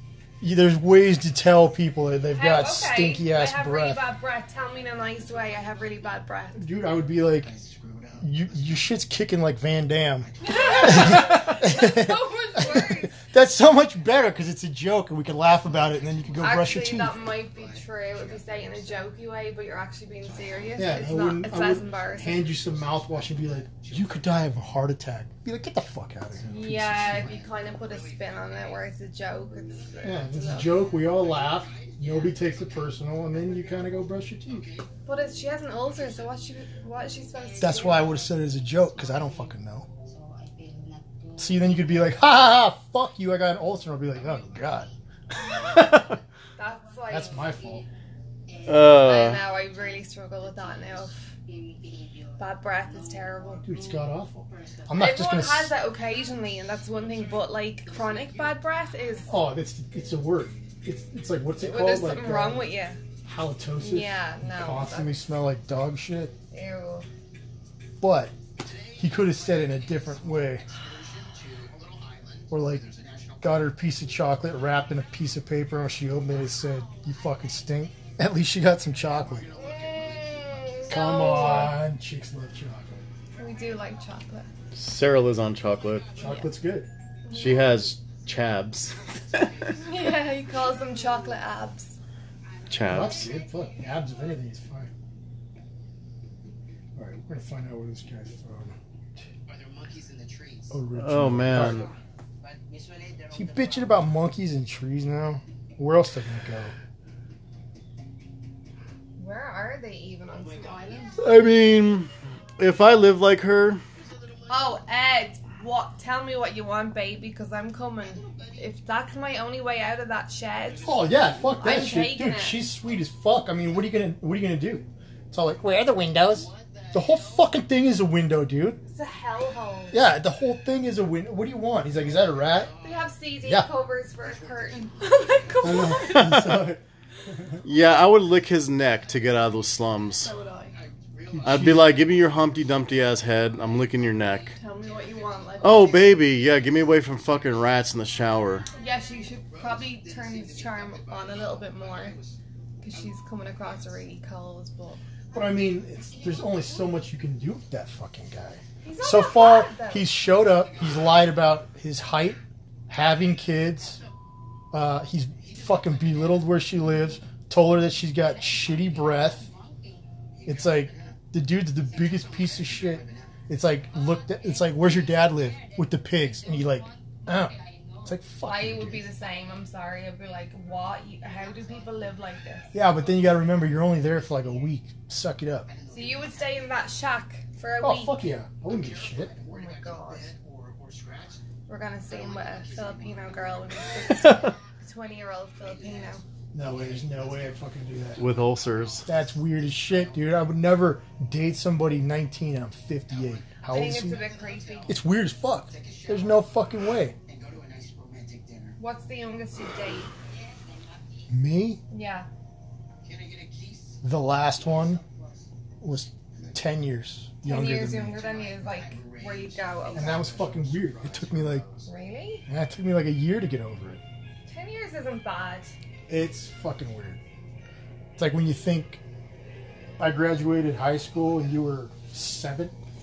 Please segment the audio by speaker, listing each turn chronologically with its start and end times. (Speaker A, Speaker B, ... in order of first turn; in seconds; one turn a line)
Speaker A: 0.4-4.0
Speaker B: 2.3-6.6
Speaker A: 6.6-7.5
Speaker A: 8.2-17.2
Speaker B: 10.4-13.2
Speaker B: 16.4-22.4
Speaker A: 20.8-27.4
Speaker B: 26.5-30.9
Speaker A: 30.0-34.7
Speaker B: 35.1-38.1
Speaker A: 37.6-39.9
Speaker C: 40.1-41.4
Speaker A: 41.4-44.9
Speaker B: 46.6-47.4
Speaker A: 47.1-47.9
Speaker D: 48.6-49.4
Speaker B: 48.8-51.3
Speaker C: 51.5-52.4
Speaker B: 52.4-53.6
Speaker A: 53.6-55.7
Speaker B: 54.9-59.3
Speaker A: 59.3-62.7
Speaker B: 61.6-63.0
Speaker A: 63.2-66.3
Speaker B: 63.8-65.2
Speaker B: 66.5-67.1
Speaker A: 68.0-70.7
Speaker A: 72.5-79.5
Speaker B: 79.6-81.8
Speaker A: 80.9-83.0
Speaker B: 83.4-84.5
Speaker D: 84.7-86.1
Speaker B: 86.2-86.5
Speaker A: 86.2-86.9
Speaker B: 87.3-87.8
Speaker D: 87.3-89.7
Speaker B: 89.7-92.0
Speaker D: 92.7-93.3
Speaker A: 92.8-94.9
Speaker A: 97.0-99.2
Speaker A: 100.7-101.9
Speaker D: 101.0-101.9
Speaker A: 103.3-106.7
Speaker B: 109.2-111.3
Speaker D: 111.2-113.8
Speaker B: 114.5-122.6
Speaker A: 120.8-128.8
Speaker B: 128.8-130.0
Speaker A: 129.9-132.8
Speaker B: 132.8-136.5
Speaker A: 133.4-133.7
Speaker A: 135.6-137.6
Speaker D: 136.0-136.7
Speaker D: 137.6-140.3
Speaker B: 140.2-140.8
Speaker A: 141.3-142.0
Speaker D: 141.4-144.5
Speaker B: 144.6-146.1
Speaker D: 145.6-148.7
Speaker B: 148.8-152.2
Speaker B: 152.8-155.0
Speaker A: 155.3-164.0
Speaker B: 158.8-160.1
Speaker A: 164.7-169.5
Speaker C: 169.4-169.8
Speaker A: 170.4-177.5
Speaker A: 178.0-179.1
Speaker B: 178.4-182.8
Speaker A: 182.7-185.7
Speaker B: 185.9-188.2
Speaker C: 186.0-186.5
Speaker A: 187.8-189.4
Speaker B: 189.3-190.3
Speaker B: 191.7-196.2
Speaker A: 196.5-198.3
Speaker D: 198.2-199.1
Speaker A: 199.1-204.2
Speaker B: 203.7-205.0
Speaker A: 204.8-207.2
Speaker B: 208.8-210.1
Speaker C: 210.3-211.3
Speaker A: 211.3-211.8
Speaker B: 211.9-212.3
Speaker A: 214.0-215.0
Speaker C: 214.6-215.4
Speaker A: 215.8-218.3
Speaker B: 217.4-220.3
Speaker A: 219.9-221.7
Speaker B: 221.8-222.5
Speaker A: 222.5-224.0
Speaker B: 224.5-225.7
Speaker A: 226.1-227.2
Speaker A: 228.2-229.0
Speaker A: 230.0-232.8